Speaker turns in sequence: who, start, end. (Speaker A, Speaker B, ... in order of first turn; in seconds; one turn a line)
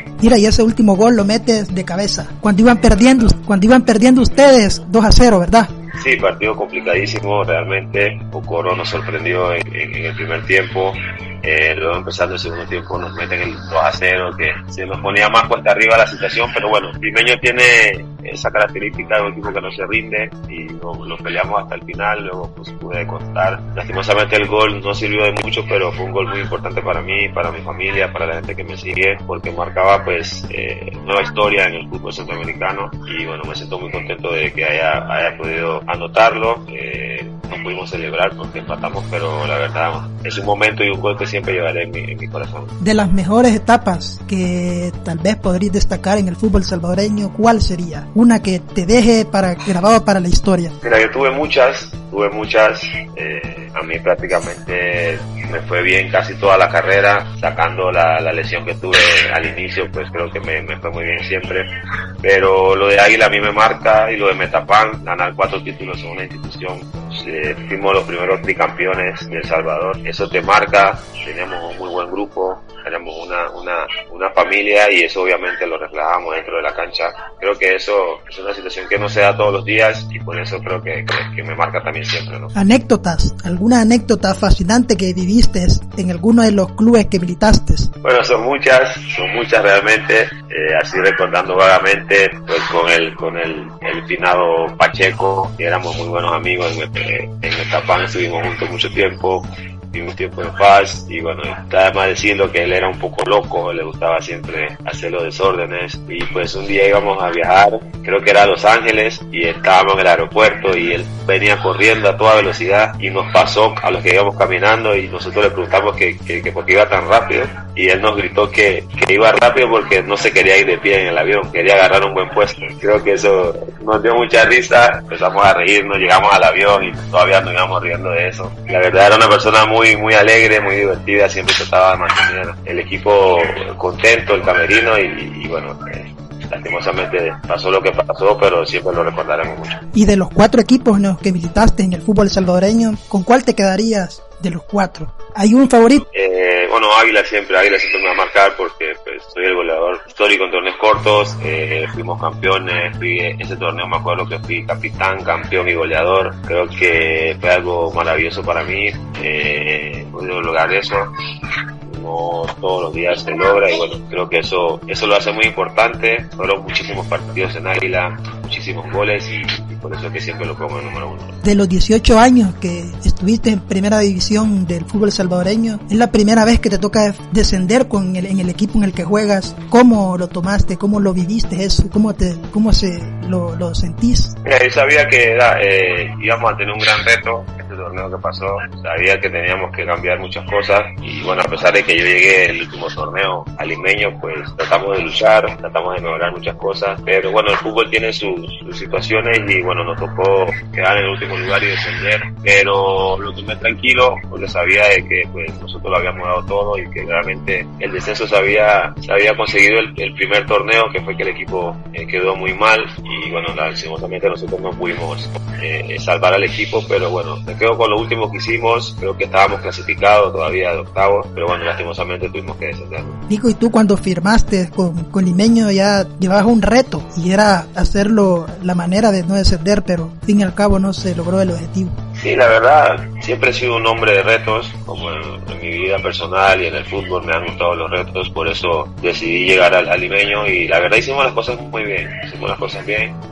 Speaker A: 0.2-5.7
Speaker B: 6.0-42.8
Speaker A: 42.8-50.8
Speaker B: 50.8-61.7
Speaker B: 62.2-82.5
Speaker A: 82.5-87.9
Speaker B: 88.0-139.8
Speaker A: 139.9-146.1
Speaker B: 146.1-161.1
Speaker B: 161.9-171.4
Speaker A: 171.4-184.3
Speaker B: 184.4-223.2
Speaker A: 223.3-232.0
Speaker B: 232.2-243.2